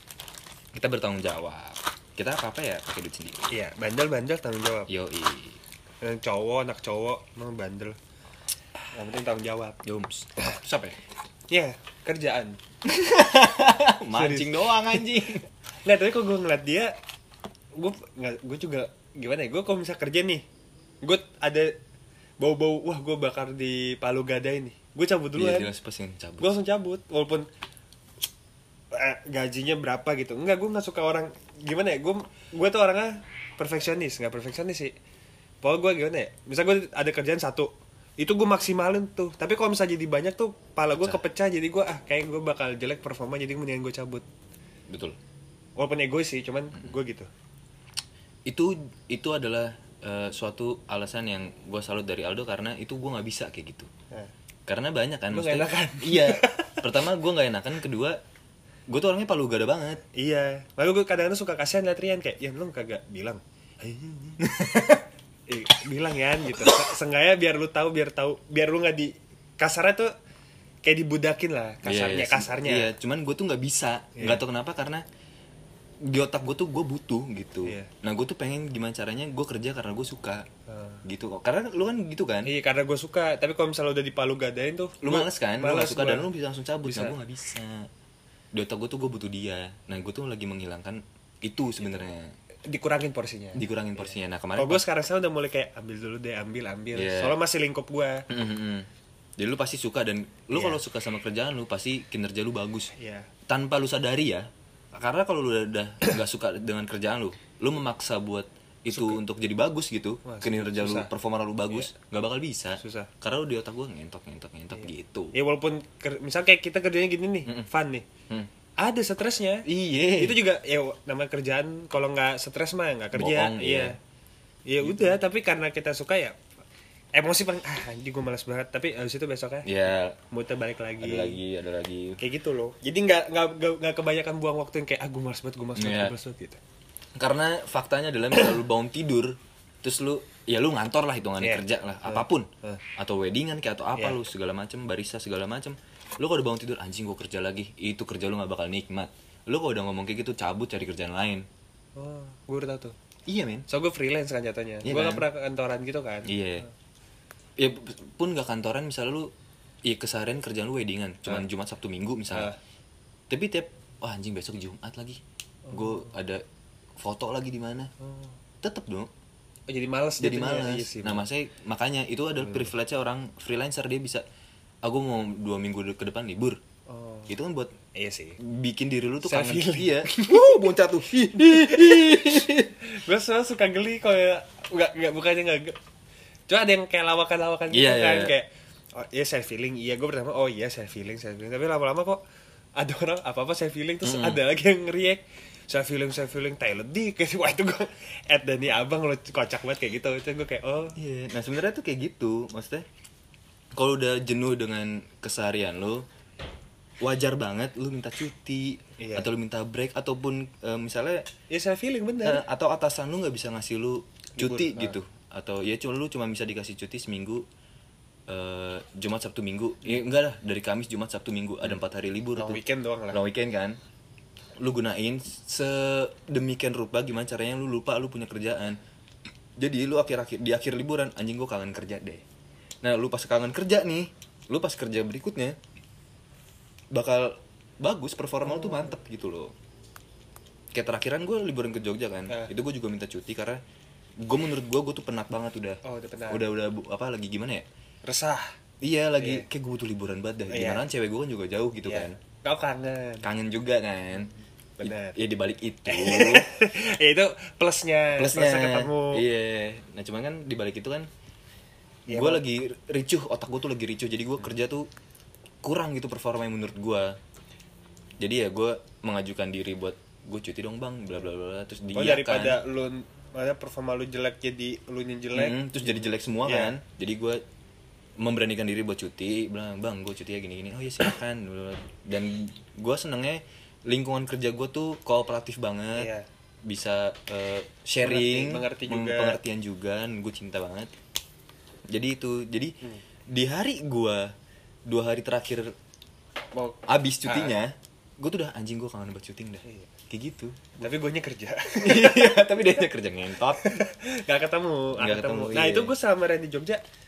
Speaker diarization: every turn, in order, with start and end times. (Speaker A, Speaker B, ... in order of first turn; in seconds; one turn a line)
Speaker A: 0.7-3.5
Speaker B: 3.5-4.9
Speaker A: 4.9-5.6
Speaker B: 6.0-8.0
Speaker B: 8.9-9.8
Speaker A: 9.8-11.0
Speaker B: 11.5-12.6
Speaker A: 12.8-15.4
Speaker B: 14.1-15.0
Speaker B: 15.8-16.9
Speaker B: 17.7-20.4
Speaker B: 21.0-21.8
Speaker B: 22.4-25.7
Speaker A: 25.3-26.6
Speaker B: 26.4-27.5
Speaker B: 28.9-34.9
Speaker B: 35.6-44.2
Speaker A: 44.9-45.2
Speaker B: 45.8-47.3
Speaker A: 48.5-53.9
Speaker A: 54.7-58.2
Speaker B: 55.3-56.8
Speaker A: 58.9-60.0
Speaker B: 60.1-64.5
Speaker A: 64.4-65.0
Speaker B: 65.5-70.1
Speaker B: 70.8-72.9
Speaker A: 71.8-75.0
Speaker B: 74.2-74.4
Speaker A: 76.0-80.5
Speaker B: 77.6-77.9
Speaker B: 80.7-81.0
Speaker A: 81.0-82.5
Speaker B: 82.4-86.3
Speaker A: 85.0-87.9
Speaker B: 86.8-87.1
Speaker A: 88.5-92.3
Speaker B: 92.7-98.2
Speaker A: 93.5-94.8
Speaker A: 96.9-97.3
Speaker A: 98.3-98.9
Speaker A: 99.4-102.9
Speaker B: 100.5-100.8
Speaker B: 103.0-103.3
Speaker A: 103.5-115.3
Speaker B: 108.9-109.2
Speaker B: 110.2-111.1
Speaker B: 112.8-113.1
Speaker B: 114.7-118.1
Speaker B: 118.8-124.0
Speaker A: 119.7-120.4
Speaker A: 123.1-123.9
Speaker B: 124.7-126.4
Speaker A: 124.8-125.2
Speaker B: 127.1-129.7
Speaker A: 129.6-130.2
Speaker B: 130.3-131.4
Speaker A: 131.0-132.2
Speaker B: 132.2-136.6
Speaker A: 135.8-136.1
Speaker A: 137.2-151.4
Speaker B: 141.4-142.8
Speaker B: 151.9-152.9
Speaker A: 153.3-153.7
Speaker B: 153.7-156.7
Speaker A: 154.8-155.2
Speaker A: 156.3-156.7
Speaker A: 157.6-159.3
Speaker A: 159.8-162.5
Speaker B: 162.3-162.6
Speaker A: 163.3-166.4
Speaker B: 165.7-166.1
Speaker A: 167.0-167.9
Speaker B: 168.0-168.3
Speaker A: 168.6-169.1
Speaker B: 169.7-171.2
Speaker A: 170.2-174.2
Speaker B: 172.4-172.7
Speaker A: 174.8-176.6
Speaker B: 176.9-177.3
Speaker A: 177.3-177.7
Speaker B: 177.9-178.4
Speaker A: 178.4-182.7
Speaker B: 179.2-180.7
Speaker B: 181.3-185.8
Speaker B: 186.5-192.2
Speaker A: 187.7-188.3
Speaker B: 192.8-201.0
Speaker A: 194.0-194.4
Speaker A: 200.9-202.8
Speaker A: 203.7-206.0
Speaker A: 207.0-211.3
Speaker B: 209.0-209.3
Speaker B: 211.5-212.4
Speaker A: 212.2-217.4
Speaker B: 214.3-215.0
Speaker A: 218.3-222.6
Speaker B: 222.3-223.2
Speaker A: 223.1-223.8
Speaker A: 224.6-228.8
Speaker A: 229.6-232.2
Speaker A: 232.8-235.6
Speaker A: 236.9-239.5
Speaker B: 238.4-239.0
Speaker A: 240.7-243.6
Speaker A: 244.2-247.7
Speaker B: 245.8-246.5
Speaker B: 248.0-248.5
Speaker A: 248.8-252.2
Speaker B: 249.2-249.5
Speaker B: 250.5-250.8
Speaker B: 251.8-253.3
Speaker A: 253.2-254.3
Speaker B: 254.8-255.2
Speaker A: 254.8-256.5
Speaker B: 255.8-259.2
Speaker A: 258.1-261.1
Speaker B: 262.1-262.4
Speaker A: 262.1-264.9
Speaker A: 265.6-267.2
Speaker A: 268.2-272.6
Speaker B: 271.9-275.6
Speaker A: 275.3-277.4
Speaker B: 276.4-276.7
Speaker A: 278.2-286.1
Speaker B: 285.9-286.2
Speaker A: 286.6-290.9
Speaker B: 288.0-289.4
Speaker A: 291.9-292.8
Speaker A: 293.3-294.3
Speaker A: 294.9-295.7
Speaker B: 296.5-297.6
Speaker A: 296.9-300.8
Speaker B: 300.8-302.7
Speaker A: 301.8-303.8
Speaker B: 303.5-306.8
Speaker A: 304.9-305.9